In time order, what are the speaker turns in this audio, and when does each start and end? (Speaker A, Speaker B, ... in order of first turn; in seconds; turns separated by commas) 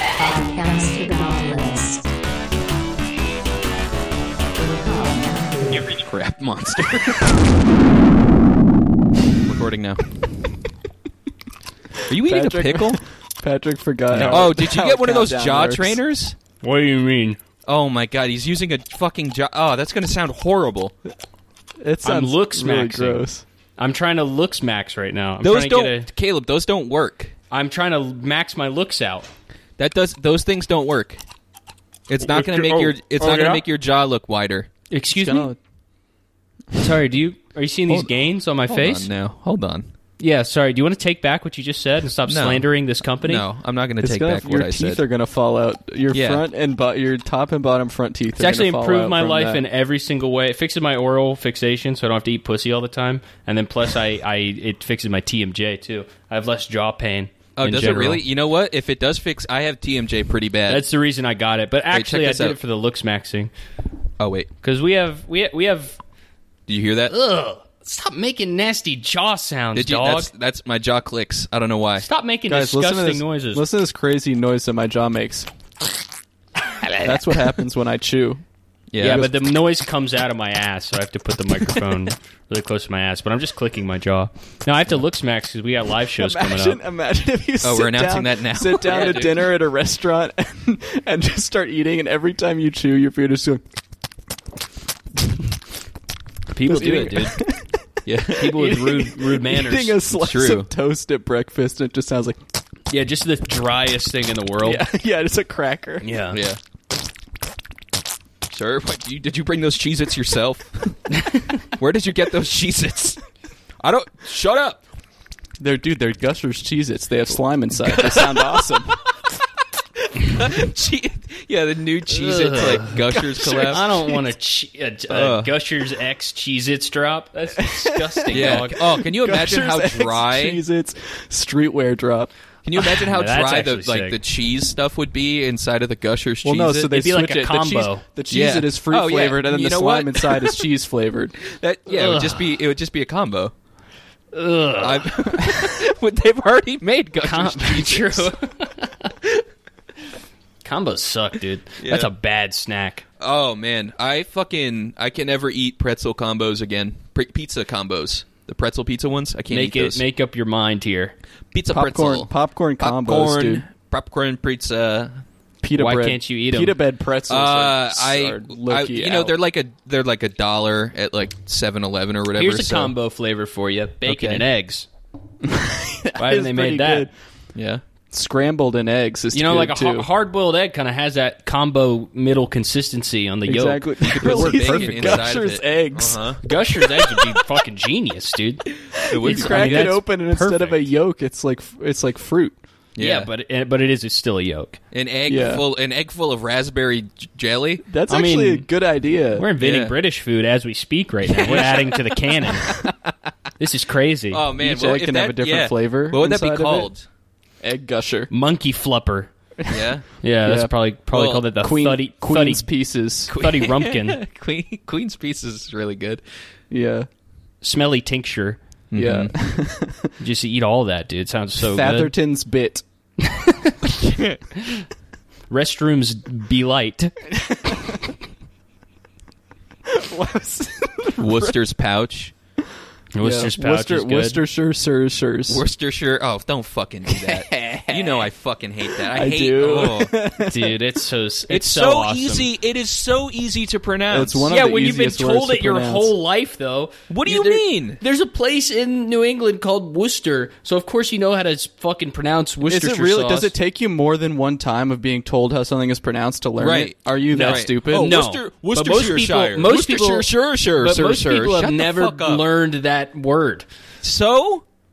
Speaker A: 0.2-2.1, Speaker A: 4.9-5.7, Speaker B: 5.7-7.4, Speaker B: 9.4-10.1, Speaker B: 12.1-13.0, Speaker C: 12.1-16.0, Speaker D: 14.1-14.5, Speaker B: 14.2-16.4, Speaker D: 16.6-17.4, Speaker B: 17.7-20.9, Speaker C: 21.8-23.4, Speaker D: 22.0-23.2, Speaker D: 23.8-26.1, Speaker B: 25.4-27.3, Speaker D: 27.5-29.3, Speaker B: 29.8-31.2, Speaker B: 32.1-34.7, Speaker C: 32.3-33.6, Speaker D: 34.9-35.5, Speaker B: 35.2-35.5, Speaker D: 36.8-39.1, Speaker B: 38.7-39.9, Speaker D: 40.2-43.4, Speaker B: 42.3-42.7, Speaker B: 43.2-45.0, Speaker C: 44.0-49.6, Speaker B: 46.1-46.4, Speaker D: 48.4-58.2, Speaker B: 57.6-60.8, Speaker D: 60.7-63.5, Speaker B: 61.9-62.6, Speaker B: 64.2-64.5, Speaker D: 64.6-66.0, Speaker B: 66.7-67.1, Speaker D: 67.1-70.3, Speaker B: 69.8-72.1, Speaker D: 72.0-73.7, Speaker C: 72.5-75.5, Speaker D: 76.8-77.4, Speaker C: 77.0-78.4, Speaker B: 78.9-79.3, Speaker D: 79.0-86.8, Speaker C: 79.0-79.3, Speaker C: 86.2-93.6, Speaker B: 87.6-89.5, Speaker D: 88.9-89.2, Speaker D: 96.5-97.4, Speaker C: 96.7-97.8, Speaker B: 98.0-99.1, Speaker D: 98.4-100.0, Speaker C: 98.5-102.4, Speaker B: 100.1-100.7, Speaker D: 102.9-104.8, Speaker C: 104.6-106.0, Speaker D: 106.0-106.4, Speaker B: 106.3-106.6, Speaker B: 108.5-113.2, Speaker D: 111.2-111.6, Speaker B: 113.8-114.8, Speaker C: 115.6-119.0, Speaker B: 117.8-119.0, Speaker B: 120.1-123.8, Speaker D: 122.1-123.0, Speaker C: 122.9-124.2, Speaker D: 123.5-128.8, Speaker B: 125.1-125.5, Speaker C: 127.6-132.3, Speaker B: 128.3-130.6, Speaker B: 132.6-136.9, Speaker D: 132.8-134.2, Speaker C: 136.4-141.4, Speaker D: 136.9-138.0, Speaker B: 138.3-140.7, Speaker B: 141.5-143.5, Speaker D: 141.9-142.5, Speaker D: 144.3-145.8, Speaker B: 144.8-148.3, Speaker D: 147.2-149.1, Speaker D: 150.6-153.1, Speaker B: 151.8-152.1, Speaker B: 153.2-160.0, Speaker D: 159.5-161.2, Speaker B: 161.5-165.2, Speaker C: 161.7-163.6, Speaker C: 165.6-169.4, Speaker D: 165.8-166.8, Speaker B: 167.3-172.9, Speaker D: 172.3-174.9, Speaker B: 174.1-174.4, Speaker C: 175.4-177.1, Speaker D: 176.2-177.1, Speaker B: 177.6-177.8, Speaker C: 178.1-180.1, Speaker D: 179.3-185.3, Speaker C: 183.5-186.2, Speaker B: 184.0-186.4, Speaker D: 186.4-188.7, Speaker B: 189.1-190.0, Speaker C: 189.1-192.6, Speaker D: 189.2-190.9, Speaker B: 192.9-193.3, Speaker D: 193.0-194.8, Speaker B: 194.9-197.9, Speaker C: 195.3-195.6, Speaker C: 197.9-199.5, Speaker D: 198.1-198.7, Speaker D: 199.4-202.7, Speaker B: 199.6-199.9, Speaker D: 203.6-204.4, Speaker B: 204.3-207.1, Speaker C: 204.6-206.9, Speaker C: 207.6-208.3, Speaker D: 208.3-209.3, Speaker B: 209.7-210.1, Speaker D: 210.2-212.7, Speaker C: 210.4-210.7, Speaker B: 211.1-211.5, Speaker C: 211.6-213.3, Speaker B: 213.3-216.2, Speaker D: 213.3-214.2, Speaker C: 216.7-217.1, Speaker D: 217.6-218.6, Speaker B: 218.9-219.3, Speaker C: 218.9-220.1, Speaker D: 220.2-222.1, Speaker C: 221.6-222.8, Speaker D: 223.2-223.8, Speaker B: 223.9-224.4, Speaker D: 224.6-224.8, Speaker D: 225.5-227.1, Speaker C: 227.3-228.0, Speaker C: 229.9-231.6, Speaker B: 231.2-232.3, Speaker D: 233.2-234.4, Speaker C: 233.2-235.6, Speaker B: 235.5-240.1, Speaker C: 237.1-238.3, Speaker C: 239.0-240.8, Speaker D: 240.4-242.5, Speaker B: 241.5-244.5, Speaker C: 244.1-246.1, Speaker D: 244.5-253.5, Speaker B: 247.1-248.0, Speaker C: 252.7-258.2, Speaker B: 256.6-262.4, Speaker D: 257.3-263.6, Speaker B: 264.0-264.6